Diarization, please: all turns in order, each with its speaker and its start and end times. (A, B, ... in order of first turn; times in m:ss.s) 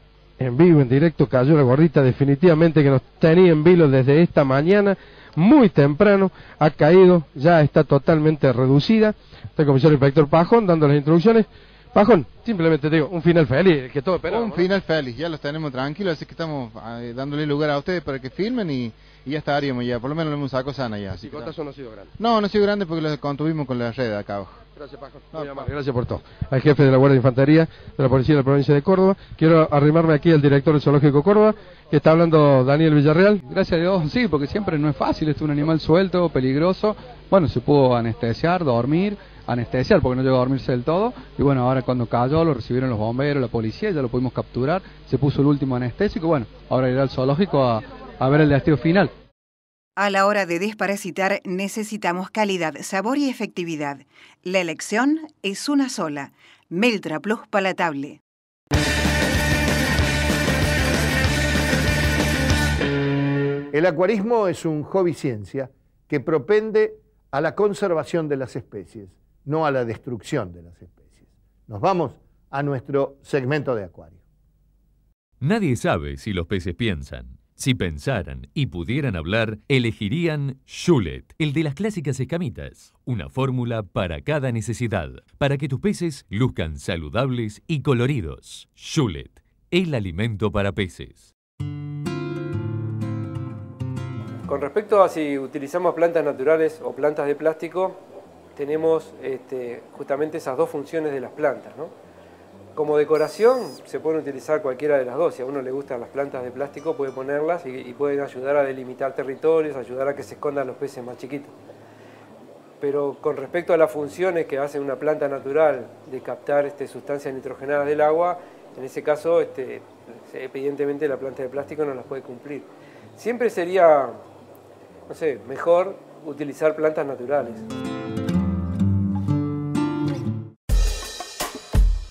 0:00.4-0:14.7 A
0:14.3-0:21.6 B
0:21.3-0:22.1 A
0:22.2-0:24.6 B
0:24.8-0:33.4 A
0:25.3-0:25.7 B
0:33.5-0:49.1 C
0:50.0-0:58.2 D
1:03.7-1:14.2 E
1:15.4-1:31.3 F
1:34.5-1:38.0 G
1:38.6-1:41.9 G
1:42.8-1:51.5 G
1:52.8-2:04.2 G
2:05.1-2:07.6 G